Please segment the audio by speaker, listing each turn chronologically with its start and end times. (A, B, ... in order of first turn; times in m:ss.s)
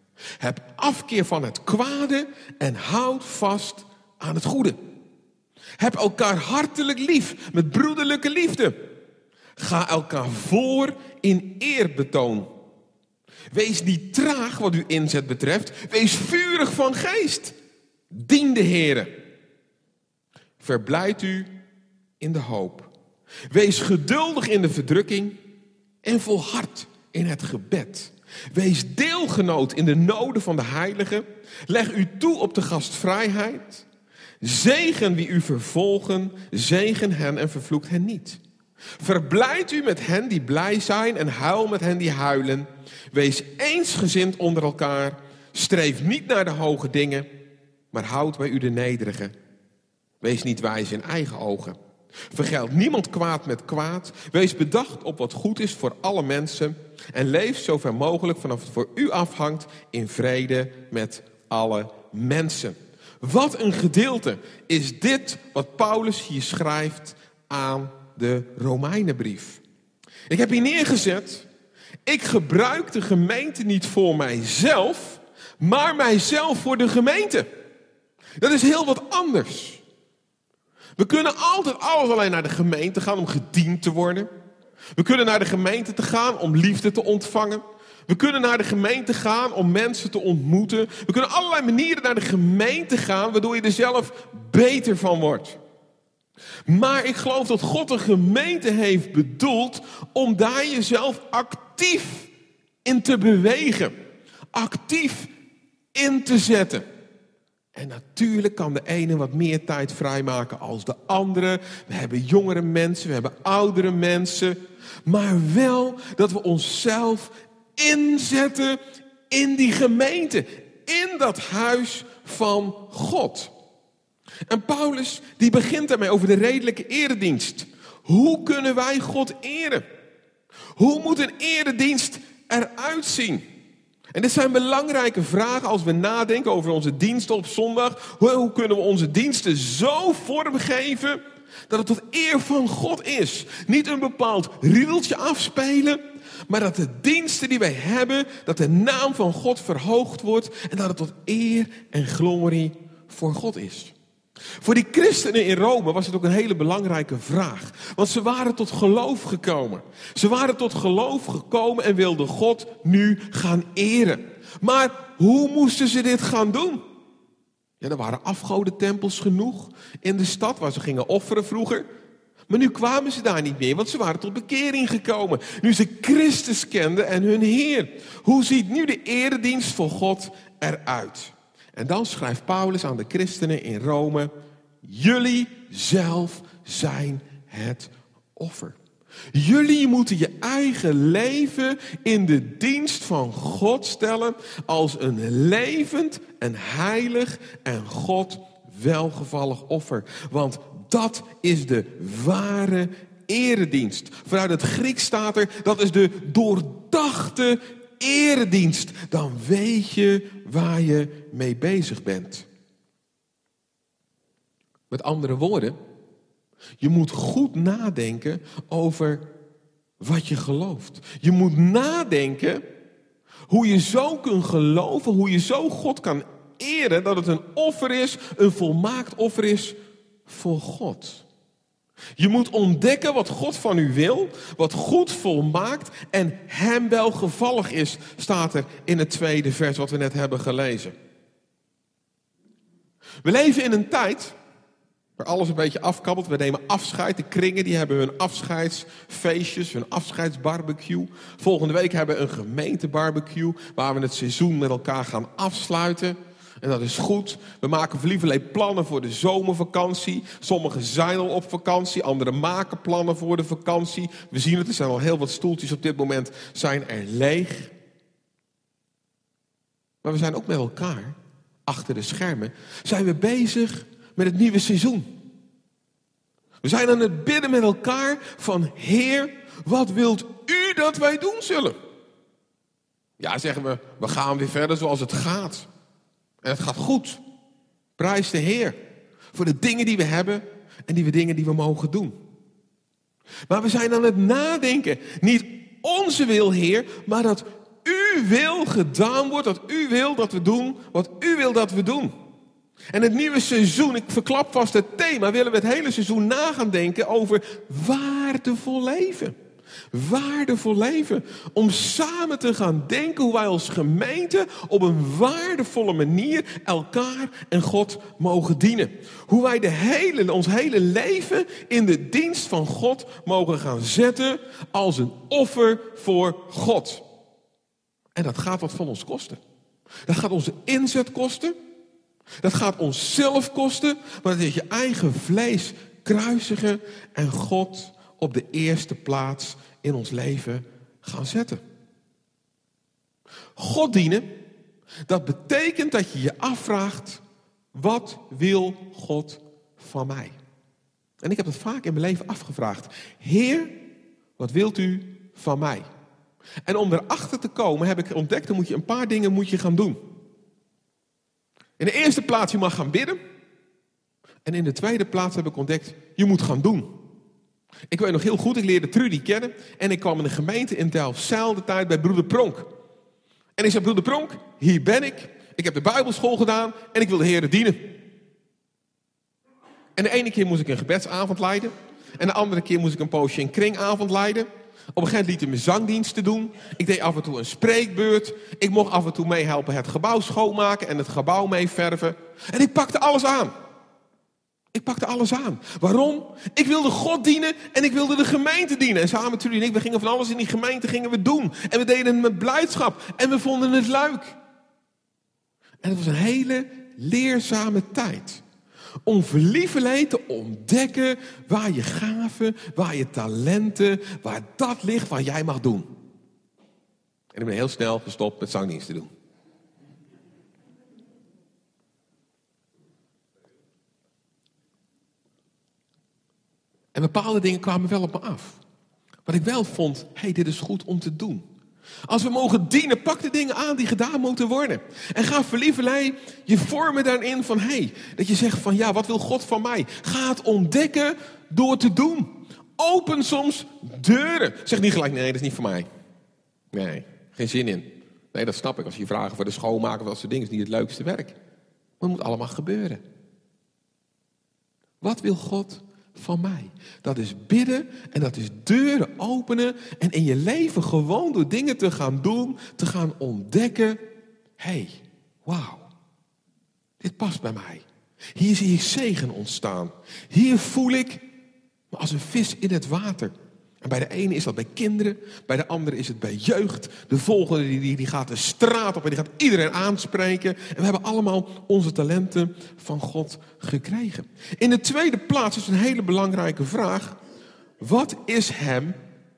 0:00.4-0:04.8 A
0:05.8-0:08.8 A
0:09.6-0:12.5 A
0:13.5-0:17.6 A
0:18.1-0:19.2 A
0:20.6-0:21.6 A
0:22.2-0:22.9 A
0:23.5-0:25.4 A
0:26.0-0:33.8 A
0:34.4-0:38.4 A
0:39.0-0:47.3 A
0:47.9-0:49.3 A
0:50.2-0:51.8 A
0:52.3-1:09.6 A
1:10.3-1:11.5 A
1:12.0-1:17.5 A
1:18.4-1:19.8 A
1:21.0-1:24.3 A
1:25.0-1:35.6 A
1:36.6-1:42.3 A
1:42.8-1:44.0 A
1:44.5-1:45.3 A
1:45.9-1:46.9 A
1:47.7-2:03.5 A
2:04.5-2:09.8 A
2:10.8-2:13.4 A
2:14.1-2:33.9 A
2:34.6-2:46.8 A
2:47.8-2:51.9 A
2:52.5-3:04.3 A
3:04.8-3:08.8 A
3:09.3-3:32.4 A
3:34.9-3:35.8 A
3:36.8-3:39.3 A
3:40.0-3:42.6 A
3:43.5-3:51.2 A
3:52.2-4:01.0 A
4:03.2-4:04.4 A
4:05.2-4:27.7 A
4:30.0-4:35.1 A
4:36.6-4:41.8 A
4:43.2-4:45.7 A
4:46.4-4:47.2 A
4:48.0-4:48.8 A
4:49.3-4:52.2 A
4:53.5-5:02.1 A
5:02.9-5:09.4 A
5:09.9-5:27.0 A
5:28.1-5:29.4 A
5:30.0-5:31.6 A
5:32.4-5:41.6 A
5:43.6-5:44.4 A
5:45.0-5:47.2 A
5:47.7-5:50.4 A
5:51.2-5:53.8 A
5:54.4-5:55.9 A
5:56.6-6:00.0 A
6:01.8-6:03.2 A
6:04.4-6:07.0 A
6:07.9-6:12.7 A
6:13.6-6:17.9 A
6:19.9-6:33.5 A
6:34.7-6:44.4 A
6:45.8-6:48.4 A
6:49.0-6:55.9 A
6:57.3-6:59.1 A
7:06.9-7:08.6 A
7:09.2-7:11.4 A
7:12.1-7:25.9 A
7:26.7-7:31.4 A
7:32.0-7:33.0 A
7:35.0-7:44.0 A
7:44.6-7:45.9 A
7:47.0-7:51.2 A
7:51.9-8:07.2 A
8:07.8-8:09.0 A